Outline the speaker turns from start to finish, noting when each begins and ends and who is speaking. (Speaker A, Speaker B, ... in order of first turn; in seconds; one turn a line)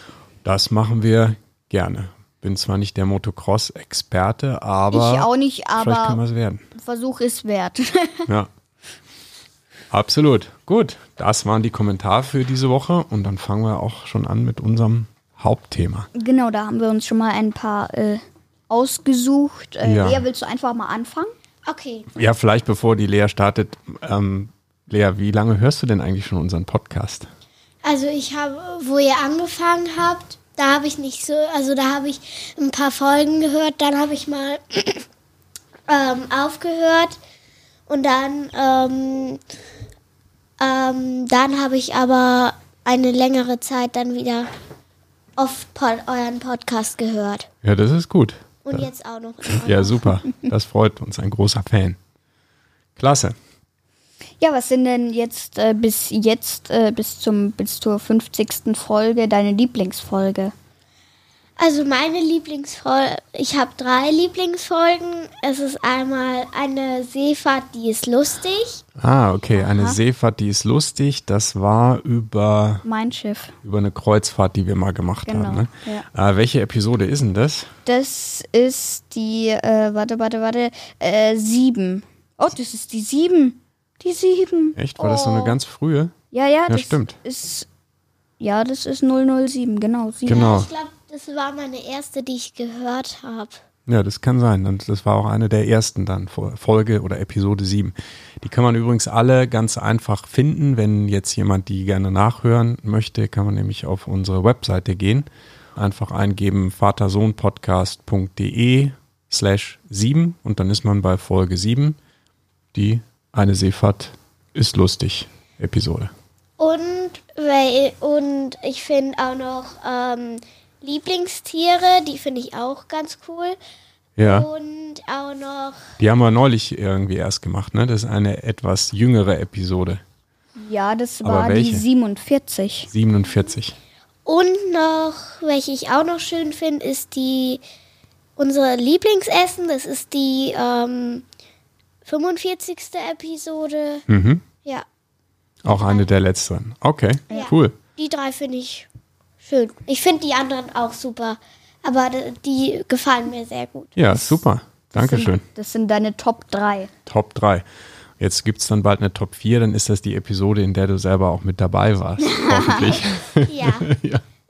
Speaker A: 0.4-6.7
Speaker B: 4.9-6.2
Speaker B: 6.8-8.3
Speaker A: 9.9-16.1
Speaker B: 16.1-21.3
Speaker A: 19.8-20.2
Speaker C: 21.7-22.1
Speaker A: 22.1-27.3
Speaker C: 27.8-35.0
Speaker C: 35.9-37.2
Speaker C: 37.9-39.4
Speaker C: 40.6-44.5
Speaker C: 45.4-47.5
Speaker A: 47.6-48.9
Speaker C: 48.6-50.1
Speaker A: 49.5-52.0
Speaker A: 53.0-53.4
Speaker B: 54.4-60.5
Speaker C: 61.6-68.8
Speaker A: 69.0-72.8
Speaker B: 69.5-70.0
Speaker B: 72.8-73.5
Speaker A: 73.6-77.7
Speaker B: 75.2-76.0
Speaker B: 77.9-85.6
Speaker A: 84.8-86.1
Speaker B: 86.3-87.7
Speaker A: 86.7-87.2
Speaker B: 88.4-90.5
Speaker A: 90.2-90.7
Speaker C: 90.3-93.6
Speaker A: 93.9-112.0
Speaker A: 112.7-116.1
Speaker C: 116.6-123.6
Speaker A: 124.2-124.5
Speaker C: 124.2-125.8
Speaker A: 126.0-130.0
Speaker B: 130.6-132.9
Speaker A: 131.2-131.8
Speaker A: 132.9-133.8
Speaker C: 134.2-137.6
Speaker C: 138.4-141.2
Speaker C: 142.1-144.0
Speaker A: 144.1-144.4
Speaker A: 145.6-147.8
Speaker C: 145.7-146.1
Speaker C: 147.3-148.9
Speaker C: 149.4-153.9
Speaker A: 153.9-155.4
Speaker B: 154.9-156.9
Speaker A: 157.1-157.6
Speaker A: 158.2-164.2
Speaker B: 162.2-163.0
Speaker C: 163.4-163.9